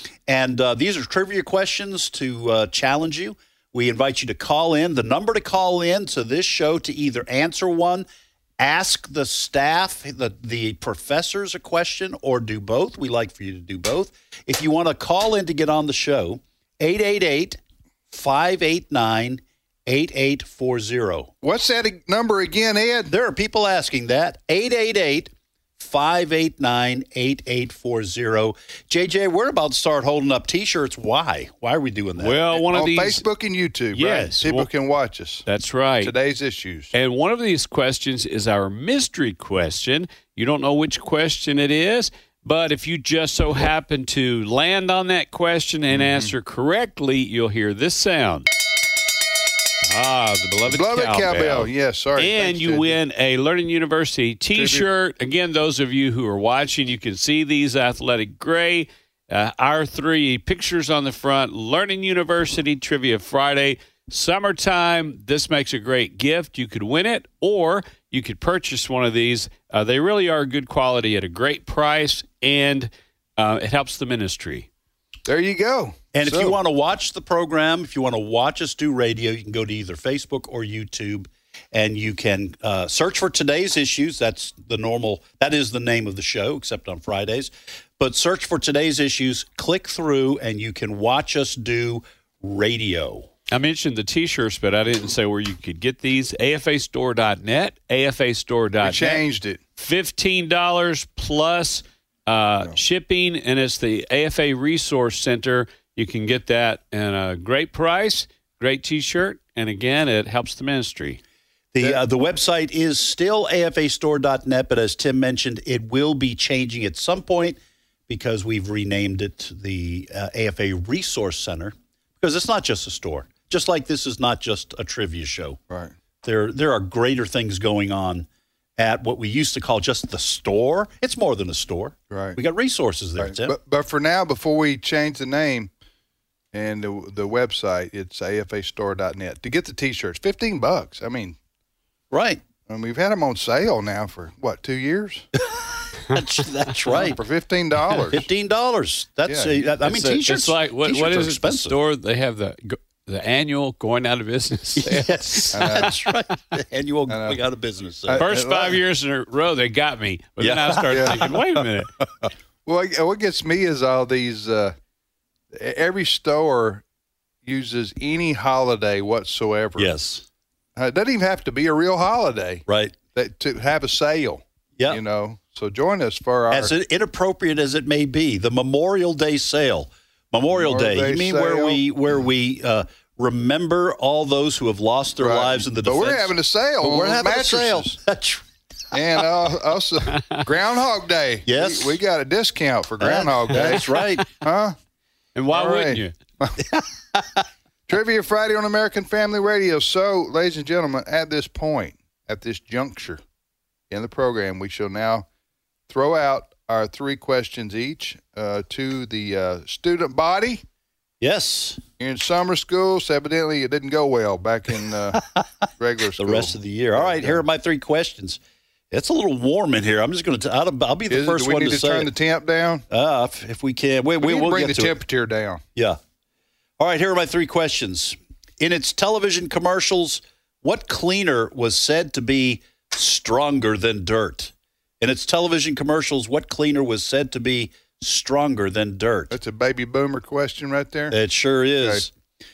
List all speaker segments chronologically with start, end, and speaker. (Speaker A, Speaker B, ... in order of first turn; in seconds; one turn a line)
Speaker A: 0.3-8.1
Speaker A: 8.6-21.3
Speaker B: 21.4-23.1
Speaker A: 23.1-32.6
Speaker C: 32.2-33.2
Speaker B: 32.7-35.5
Speaker C: 33.9-34.7
Speaker C: 35.5-36.1
Speaker B: 36.0-36.9
Speaker C: 36.9-48.5
Speaker B: 45.9-46.3
Speaker C: 49.8-74.7
Speaker B: 50.7-53.0
Speaker B: 54.5-54.9
Speaker B: 75.3-76.6
Speaker A: 76.1-93.3
Speaker C: 93.5-99.2
Speaker B: 98.8-99.6
Speaker C: 99.8-111.2
Speaker A: 111.8-125.6
Speaker A: 126.2-133.6
Speaker B: 132.1-132.4
Speaker B: 133.2-135.7
Speaker B: 136.5-141.4
Speaker A: 142.1-142.4
Speaker B: 142.7-145.3
Speaker A: 146.1-147.2
Speaker B: 146.9-148.3
Speaker A: 148.1-151.8
Speaker B: 149.3-149.6
Speaker C: 149.8-155.6
Speaker A: 154.8-158.3
Speaker B: 155.5-155.9
Speaker B: 157.1-157.4
Speaker B: 158.1-158.8
Speaker C: 158.2-161.9
Speaker A: 160.4-161.6
Speaker B: 160.9-161.2
Speaker B: 162.7-164.8
Speaker B: 165.5-166.8
Speaker B: 167.4-169.9
Speaker A: 169.8-170.3
Speaker B: 170.8-176.7
Speaker A: 172.7-173.0
Speaker A: 176.5-188.4
Speaker B: 180.5-181.8
Speaker B: 185.2-188.0
Speaker B: 188.9-194.8
Speaker C: 190.1-190.4
Speaker A: 191.5-192.0
Speaker A: 193.0-194.2
Speaker C: 193.6-194.2
Speaker C: 195.4-196.1
Speaker B: 195.5-196.6
Speaker A: 196.7-197.4
Speaker B: 197.9-203.2
Speaker B: 203.9-205.3
Speaker B: 205.9-210.6
Speaker A: 211.2-211.8
Speaker B: 212.0-215.2
Speaker A: 215.1-215.4
Speaker B: 215.8-217.4
Speaker A: 216.2-218.4
Speaker A: 218.9-222.1
Speaker B: 221.1-222.8
Speaker A: 222.9-224.9
Speaker B: 224.2-225.6
Speaker A: 226.8-239.4
Speaker B: 239.3-241.2
Speaker A: 241.1-242.1